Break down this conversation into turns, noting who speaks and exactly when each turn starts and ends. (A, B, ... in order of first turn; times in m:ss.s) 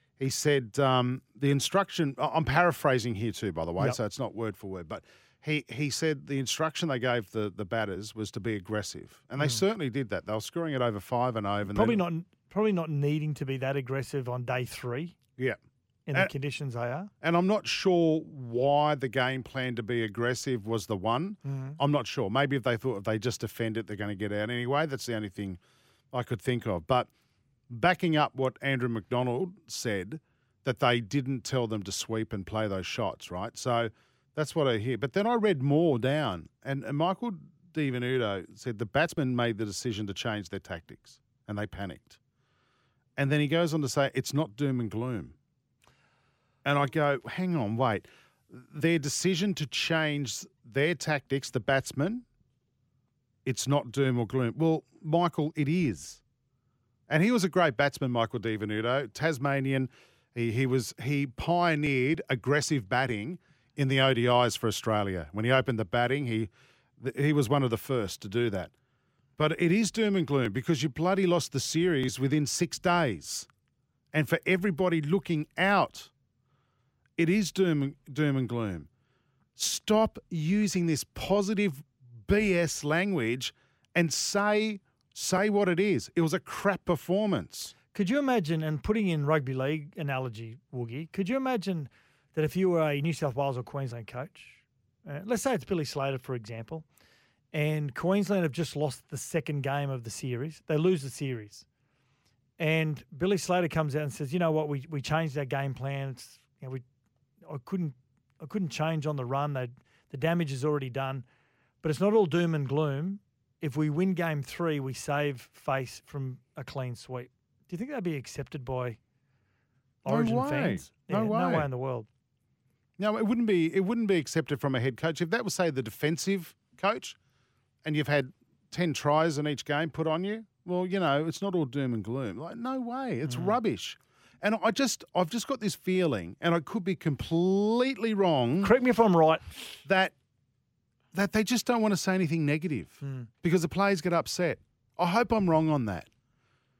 0:00.2-0:12.0 A
0:11.7-0:15.1 B
0:16.1-0:17.1 B
0:17.2-0:25.6 A
0:21.4-0:21.8 B
0:26.1-0:27.1 A
0:27.7-0:42.2 A
0:43.2-0:45.3 A
0:46.6-0:52.2 A
0:53.4-0:56.2 A
0:57.1-1:08.7 A
1:09.4-1:13.5 A
1:14.1-1:16.1 A
1:17.2-1:18.9 A
1:19.6-1:27.7 A
1:27.9-1:36.9 B
1:37.5-1:41.6 B
1:42.6-1:46.8 B
1:47.4-1:51.2 B
1:51.8-1:59.0 B
2:00.0-2:02.1 B
2:00.0-2:01.7 A
2:03.0-2:07.2 A
2:07.8-2:18.7 A
2:13.2-2:13.6 B
2:18.6-2:19.4 B
2:19.8-2:20.1 A
2:21.1-2:26.1 A
2:23.0-2:23.3 B